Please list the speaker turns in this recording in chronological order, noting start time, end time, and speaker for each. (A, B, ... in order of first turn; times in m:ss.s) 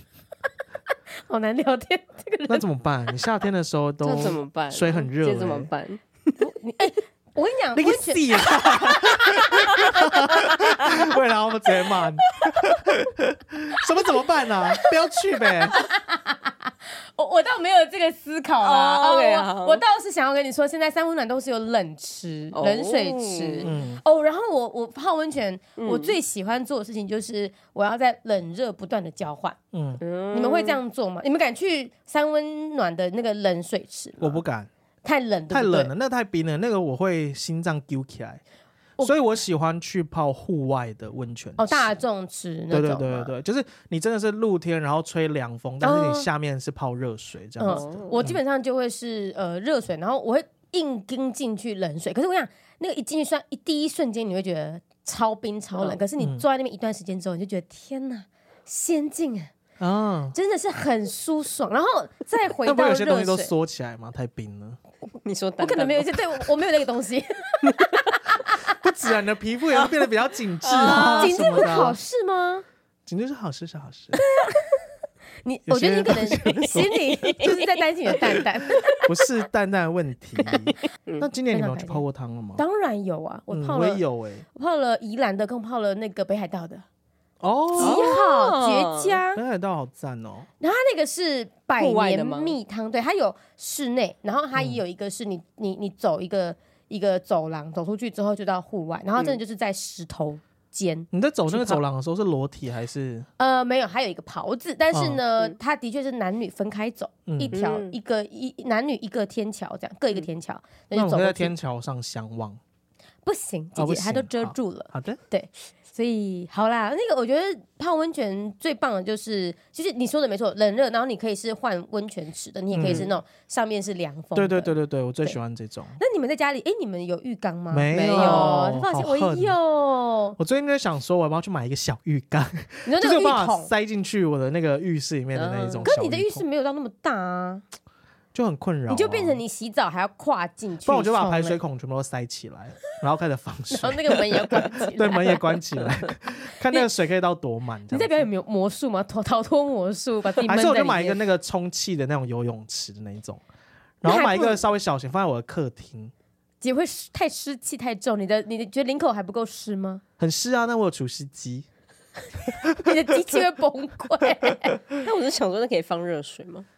0:01.3-0:02.6 A
0:02.5-0:05.7 B
0:04.0-0:06.3 C
0:06.4-0:10.3 A
0:07.8-0:15.8 B
0:10.4-0:10.8 C
0:12.4-0:12.7 A
0:15.6-0:29.6 A
0:18.6-0:19.8 C
0:22.5-0:23.8 C
0:23.6-0:24.0 B
0:25.8-0:26.2 C
0:29.7-0:30.0 B
0:30.0-0:30.8 C
0:30.3-0:34.4 A
0:34.2-0:34.7 B
0:35.0-0:35.9 A
0:35.5-0:38.4 B
0:39.0-0:42.0 B
0:41.6-0:43.3 A
0:42.7-0:48.4 B
0:45.8-0:46.3 A
0:47.6-0:59.5 A
0:47.6-0:48.2 C
0:55.8-0:56.0 C
0:56.2-0:56.4 B
0:59.8-1:00.4 B
1:00.3-1:03.5 A
1:02.6-1:04.8 B
1:05.2-1:06.4 C
1:05.6-1:08.7 A
1:08.7-1:12.0 B
1:10.6-1:11.7 C
1:10.8-1:12.6 A
1:13.1-1:14.2 B
1:14.2-1:14.9 A
1:15.4-1:19.1 A
1:15.7-1:17.0 B
1:17.4-1:17.7 C
1:19.0-1:22.6 B
1:21.5-1:22.0 A
1:22.6-1:24.0 A
1:23.5-1:24.4 B
1:24.5-1:26.9 A
1:27.4-1:28.2 B
1:27.8-1:29.4 A
1:27.8-1:29.2 C
1:29.4-1:30.5 B
1:30.6-1:41.8 A
1:31.8-1:32.6 C
1:34.6-1:34.8 B
1:41.1-1:43.3 B
1:43.4-1:51.5 A
1:44.9-1:45.2 B
1:47.3-1:47.6 B
1:47.5-1:48.0 C
1:50.9-1:52.6 B
1:53.2-2:05.4 A
1:53.8-1:55.2 B
2:02.7-2:03.1 B
2:02.8-2:03.1 C
2:04.4-2:06.0 B
2:06.0-2:10.4 A
2:07.7-2:09.6 B
2:07.9-2:08.6 C
2:10.4-2:16.4 B
2:12.9-2:13.7 A
2:15.3-2:15.9 C
2:15.8-2:17.6 A
2:18.3-2:19.4 B
2:18.9-2:21.6 A
2:20.8-2:28.3 B
2:23.7-2:25.6 A
2:27.9-2:31.2 A
2:30.4-2:33.4 B
2:34.0-2:36.1 B
2:34.0-2:34.6 A
2:36.6-2:40.0 A
2:40.2-2:41.7 B
2:42.6-2:43.0 B
2:42.7-2:44.8 A
2:45.0-2:46.7 C